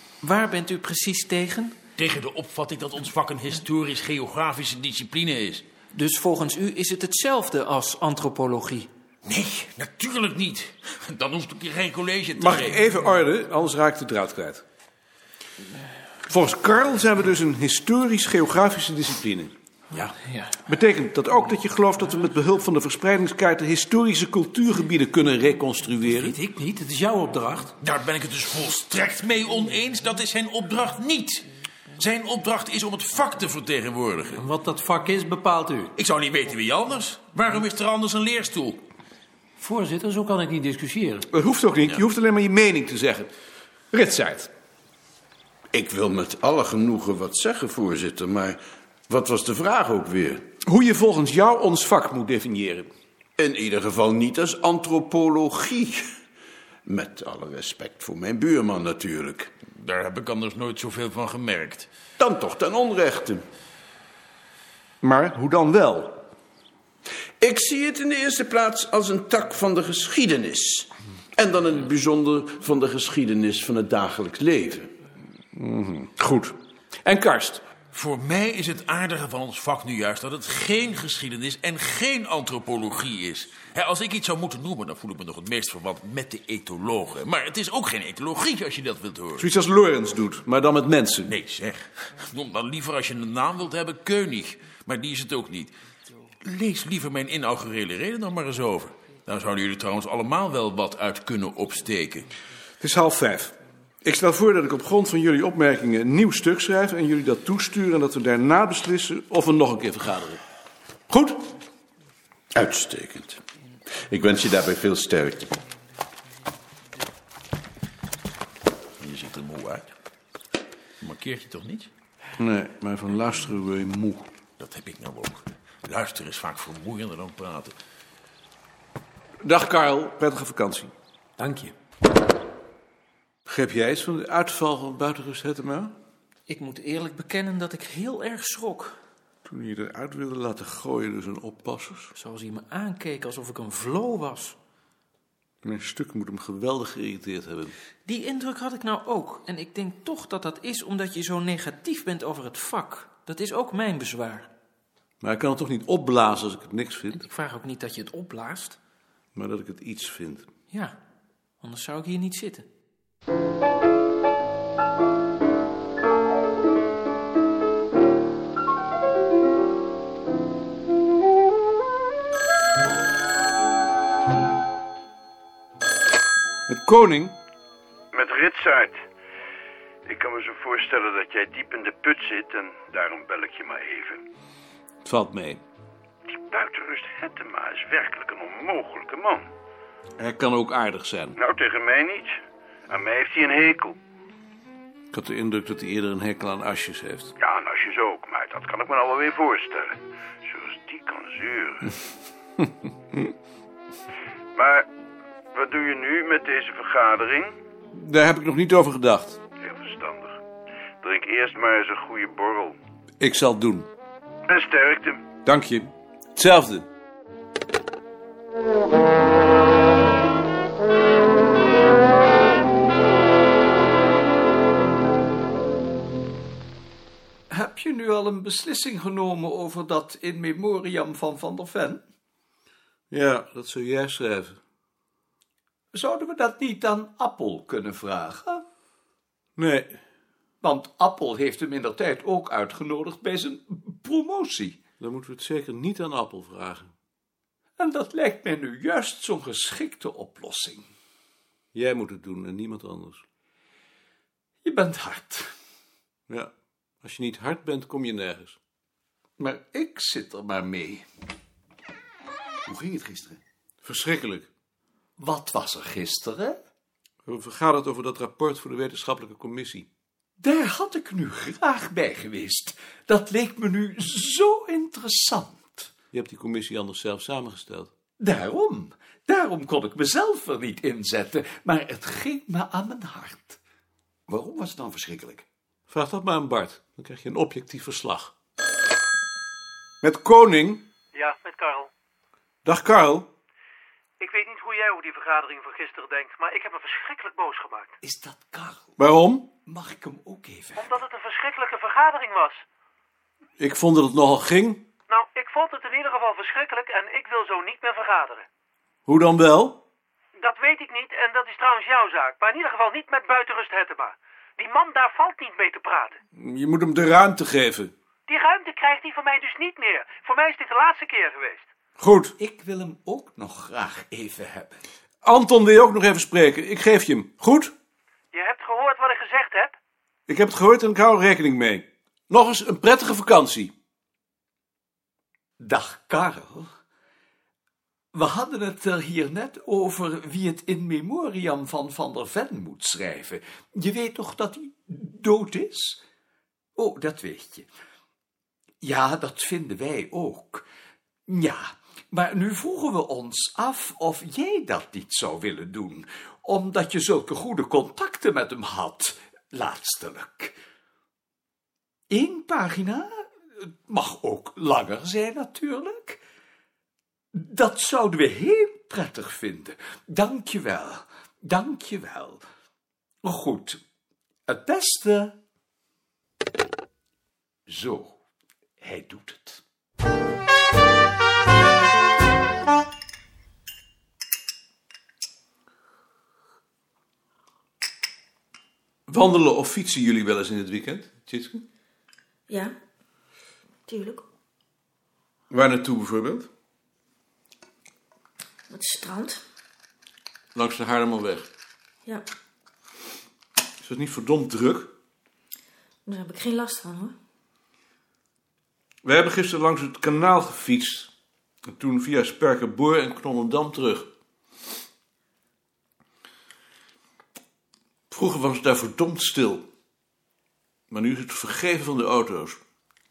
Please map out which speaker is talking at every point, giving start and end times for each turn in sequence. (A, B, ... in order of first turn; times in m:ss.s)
0:00.2-0:01.8 A
0:02.0-0:05.6 B
0:05.9-0:08.9 A
0:09.2-0:12.8 B
0:12.4-0:14.6 C
0:16.2-0:19.5 C
0:20.0-0:20.6 A
0:20.6-0:26.3 C
0:26.2-0:27.7 D
0:27.8-0:34.4 B
0:34.4-0:35.9 D
0:36.0-0:38.8 B
0:39.6-0:41.3 D
0:41.3-0:43.3 C
0:43.9-0:44.5 C
0:45.7-0:50.4 E
0:50.6-0:52.9 C
0:53.4-0:56.0 E
0:56.8-0:59.5 E
0:59.7-1:01.9 B
1:02.2-1:03.4 E
1:05.0-1:06.2 C
1:07.4-1:14.9 E
1:15.5-1:17.6 C
1:17.9-1:29.5 B
1:29.4-1:31.3 C
1:31.3-1:35.7 B
1:36.4-1:42.3 B
1:42.8-1:50.4 C
1:51.1-1:51.5 C
1:52.5-1:53.4 E
1:54.1-1:55.6 E
1:59.0-1:59.9 B
2:01.0-2:01.9 B
2:02.4-2:04.3 C
2:04.6-2:07.7 B
2:09.4-2:10.9 C
2:11.4-2:11.7 D
2:13.4-2:16.0 C
2:16.5-2:19.0 A
2:19.4-2:22.1 C
2:22.1-2:24.6 A
2:25.6-2:27.7 C
2:28.0-2:34.5 A
2:35.2-2:37.2 C
2:37.1-2:38.8 A
2:39.3-2:40.5 C
2:40.7-2:41.0 A
2:41.6-2:42.6 A
2:56.7-2:57.4 C
2:58.1-2:58.8 F
2:58.6-2:58.9 E
3:00.1-3:04.2 E
3:00.1-3:03.6 F
3:05.0-3:05.6 C
3:06.5-3:09.4 E
3:08.6-3:09.0 F
3:10.2-3:11.4 C
3:11.4-3:12.3 F
3:11.7-3:12.1 E
3:12.9-3:13.9 F
3:15.1-3:17.3 C
3:17.4-3:19.7 E
3:18.0-3:19.9 F
3:20.6-3:21.8 F
3:24.6-3:24.8 F
3:25.5-3:27.5 F
3:27.9-3:29.4 C
3:29.6-3:30.3 F
3:31.0-3:32.8 F
3:33.2-3:33.9 C
3:34.5-3:35.2 F
3:35.4-3:36.9 C
3:47.5-3:52.0 G
3:53.1-3:54.6 C
3:55.9-3:58.6 G
3:59.6-4:00.0 C
4:00.6-4:04.8 G
4:05.0-4:06.9 C
4:07.8-4:10.9 G
4:11.7-4:13.2 C
4:14.6-4:15.5 G
4:17.0-4:18.6 C
4:19.4-4:21.0 G
4:22.7-4:23.1 C
4:23.8-4:24.5 C
4:25.2-4:26.6 G
4:27.2-4:29.8 C
4:30.4-4:35.9 G
4:36.1-4:37.9 C
4:38.2-4:43.6 G
4:45.9-4:48.3 C
4:50.0-4:50.8 C
4:51.1-4:51.9 H
4:52.6-4:53.3 C
4:54.2-4:58.0 H
4:58.0-4:58.9 G
4:59.0-4:59.5 C
4:59.7-5:00.9 G
5:00.8-5:02.6 H
5:03.6-5:04.8 C
5:05.1-5:08.4 H
5:09.1-5:09.8 C
5:10.4-5:16.2 H
5:16.4-5:17.9 C
5:18.3-5:21.7 H
5:22.0-5:22.3 C
5:22.4-5:24.8 G
5:25.2-5:27.7 C
5:28.3-5:29.7 H
5:30.3-5:33.7 C
5:35.6-5:36.7 G
5:38.1-5:46.0 G
5:46.8-5:47.7 G
5:48.8-5:50.6 G
5:51.3-6:00.6 G
6:02.1-6:06.2 G
6:07.3-6:12.4 G
6:13.2-6:13.8 G
6:14.5-6:15.4 G
6:17.7-6:18.2 G
6:18.8-6:19.6 G
6:29.1-6:31.7 C
6:32.5-6:32.8 I
6:33.8-6:34.3 I
6:35.5-6:36.5 C
6:38.7-6:39.4 I
6:40.5-6:41.5 C
6:43.8-6:44.9 C
6:46.0-6:47.2 I
6:49.0-6:51.1 C
6:51.7-6:54.1 C
6:58.1-6:59.6 C
7:00.9-7:02.6 C